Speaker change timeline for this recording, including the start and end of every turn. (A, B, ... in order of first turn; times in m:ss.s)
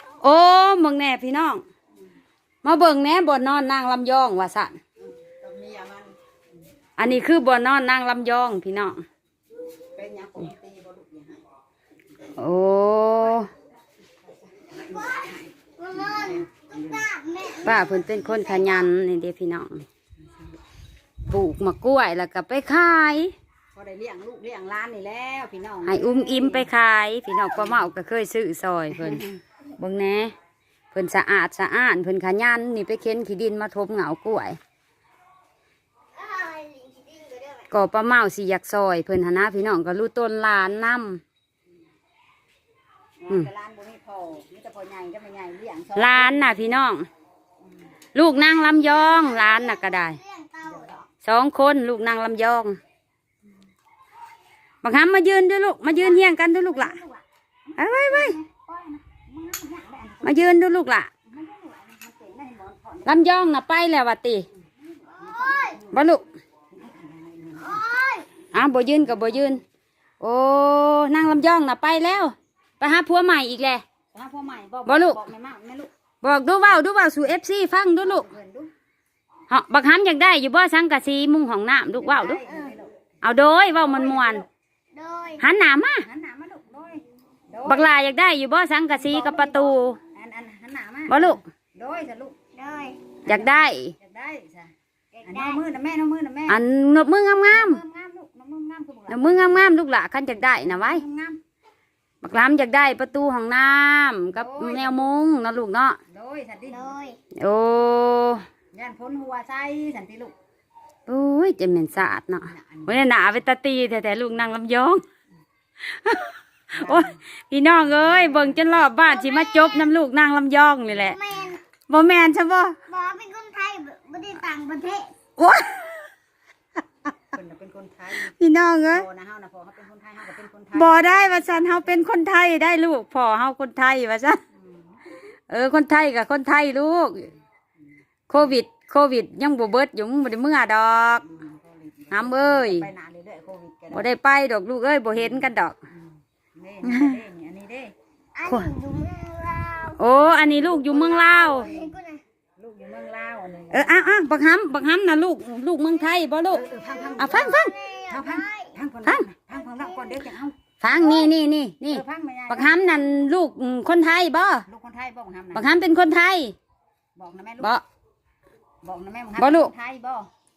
0:00.2-0:01.6 A
0:02.6-0:04.8 A
0:05.0-0:06.1 B
0:07.0-0:09.0 A
0:09.8-0:11.4 B
0:12.4-0:13.5 A
0:14.4-0:16.8 B
0:15.0-0:18.9 C
0:17.6-0:19.8 A
0:21.3-0:23.3 A
0:23.7-0:26.7 B
0:25.8-0:29.2 A
0:29.8-0:30.3 A
0:30.9-0:34.6 A
0:36.2-0:37.7 C
0:37.7-0:41.2 A
0:43.2-0:46.8 B
0:46.0-0:47.1 A
0:48.1-0:50.2 A
0:48.9-0:51.0 C
0:50.6-0:51.0 B
0:51.2-0:52.8 A
0:54.8-0:57.0 A
0:55.9-1:00.6 B
0:57.8-0:58.4 A
1:00.2-1:01.1 A
1:01.3-1:03.5 B
1:03.0-1:04.5 A
1:05.1-1:06.1 B
1:05.1-1:05.8 C
1:05.9-1:06.2 A
1:06.7-1:07.8 B
1:07.6-1:08.3 C
1:08.5-1:09.6 A
1:10.2-1:13.8 A
1:14.1-1:15.9 B
1:14.8-1:15.2 A
1:16.2-1:18.3 A
1:17.9-1:18.7 B
1:19.5-1:22.4 A
1:22.0-1:22.9 B
1:22.5-1:22.7 C
1:23.2-1:24.4 A
1:23.7-1:24.4 B
1:24.9-1:25.4 C
1:25.4-1:26.0 A
1:26.0-1:28.0 B
1:27.6-1:30.0 A
1:28.9-1:32.4 B
1:31.1-1:31.4 A
1:32.5-1:33.0 C
1:33.2-1:34.7 B
1:33.2-1:33.9 A
1:35.1-1:35.6 C
1:35.2-1:36.6 B
1:36.5-1:37.8 A
1:37.5-1:39.7 B
1:39.1-1:41.0 A
1:40.5-1:41.4 B
1:42.2-1:46.0 A
1:44.3-1:45.1 B
1:46.1-1:46.9 B
1:46.7-1:47.2 C
1:47.3-1:48.4 A
1:48.7-1:50.3 B
1:51.1-1:55.0 A
1:52.4-1:53.0 B
1:55.9-2:01.2 A
1:56.7-1:57.2 B
1:58.0-1:58.8 B
1:59.0-1:59.9 C
2:01.1-2:01.6 C
2:01.9-2:02.8 A
2:02.9-2:05.1 C
2:05.4-2:06.1 A
2:07.3-2:08.3 B
2:08.2-2:09.0 A
2:08.9-2:12.1 B
2:10.7-2:14.4 A
2:15.5-2:17.3 A
2:18.3-2:21.2 A
2:21.3-2:24.1 B
2:22.1-2:22.9 A
2:23.9-2:25.8 A
2:26.6-2:27.9 B
2:26.8-2:27.2 A
2:28.3-2:30.0 C
2:28.4-2:28.7 A
2:30.0-2:31.7 A
2:30.2-2:32.0 B
2:31.0-2:32.2 C
2:32.6-2:34.2 B
2:33.7-2:36.6 A
2:36.5-2:40.6 B
2:36.9-2:38.7 C
2:37.2-2:37.8 A
2:39.8-2:40.1 C
2:40.8-2:44.6 A
2:41.9-2:42.9 B
2:44.7-2:45.6 B
2:45.5-2:46.6 A
2:47.2-2:47.7 B
2:48.8-2:50.3 B
2:49.4-2:49.7 A